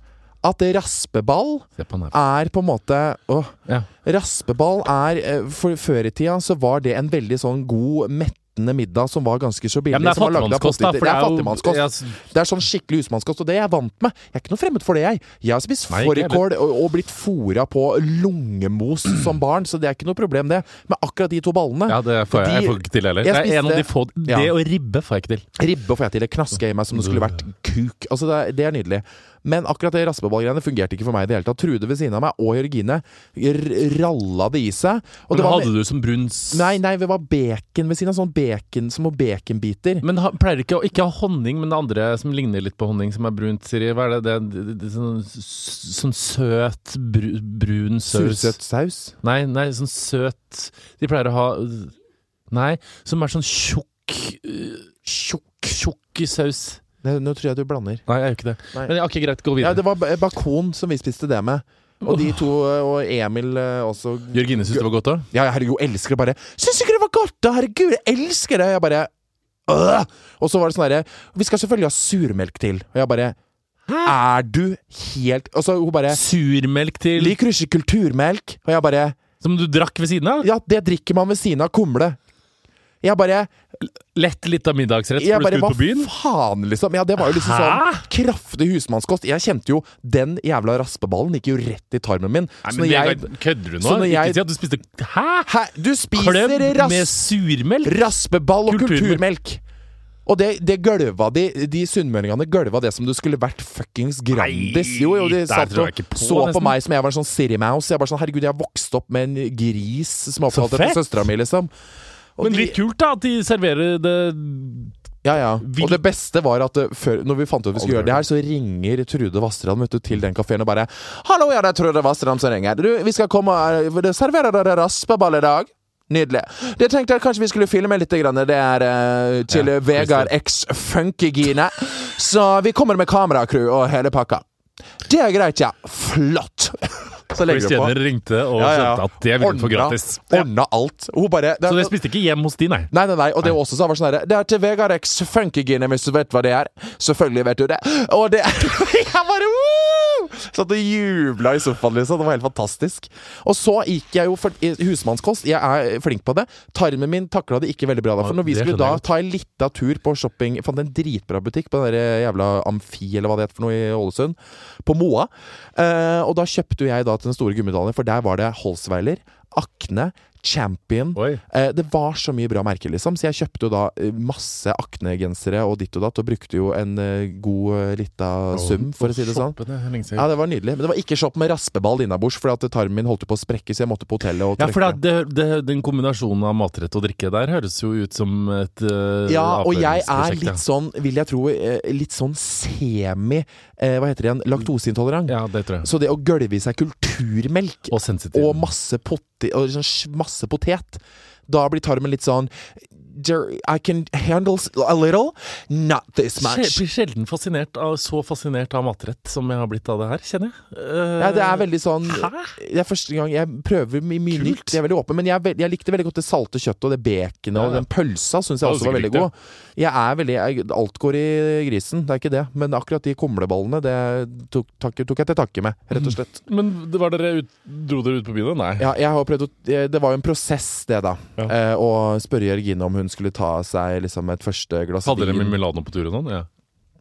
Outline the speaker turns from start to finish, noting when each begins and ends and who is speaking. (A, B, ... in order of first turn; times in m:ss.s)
0:00.4-0:24.5 A
0:01.8-0:02.1 B
0:09.9-0:12.2 B
0:15.9-0:16.4 B
0:21.9-0:25.4 B
0:25.6-0:35.7 A
0:35.3-0:36.7 B
0:36.5-0:40.0 A
0:40.0-0:48.6 B
0:48.1-0:49.1 A
0:49.2-0:51.9 B
0:52.5-0:56.8 B
0:57.0-0:58.0 A
0:58.1-0:59.8 B
0:59.6-1:09.1 A
1:02.0-1:02.4 B
1:04.3-1:05.3 B
1:09.7-1:13.4 A
1:13.9-1:14.2 B
1:14.0-1:16.2 A
1:16.1-1:17.4 B
1:17.2-1:19.2 A
1:19.4-1:20.5 B
1:20.4-1:22.2 A
1:23.0-1:23.5 A
1:23.8-1:26.1 B
1:25.2-1:34.4 A
1:27.2-1:28.0 B
1:32.6-1:35.5 B
1:35.5-1:37.2 A
1:36.1-1:38.0 B
1:37.8-1:39.6 A
1:38.7-1:39.2 B
1:40.2-1:51.7 A
1:44.3-1:46.8 B
1:50.5-1:51.0 B
1:52.4-1:52.8 A
1:52.4-1:55.0 B
1:55.2-2:14.4 A
1:55.6-1:56.0 B
1:57.8-1:58.2 B
2:09.5-2:10.3 B
2:15.0-2:18.0 A
2:17.4-2:20.5 B
2:18.5-2:22.0 A
2:21.6-2:22.9 B
2:22.9-2:59.6 A
2:38.2-2:39.0 B
2:51.2-2:51.4 B
2:58.5-3:00.3 B
3:00.1-3:05.0 A
3:04.6-3:10.6 B
3:09.2-3:26.8 A
3:15.3-3:15.9 B
3:17.9-3:18.7 B
3:26.4-3:32.5 B
3:31.2-3:46.4 A
3:34.3-3:34.8 B
3:37.6-3:37.8 B
3:38.6-3:39.3 B
3:45.9-3:48.9 B
3:48.8-3:55.6 A
3:55.0-3:56.5 B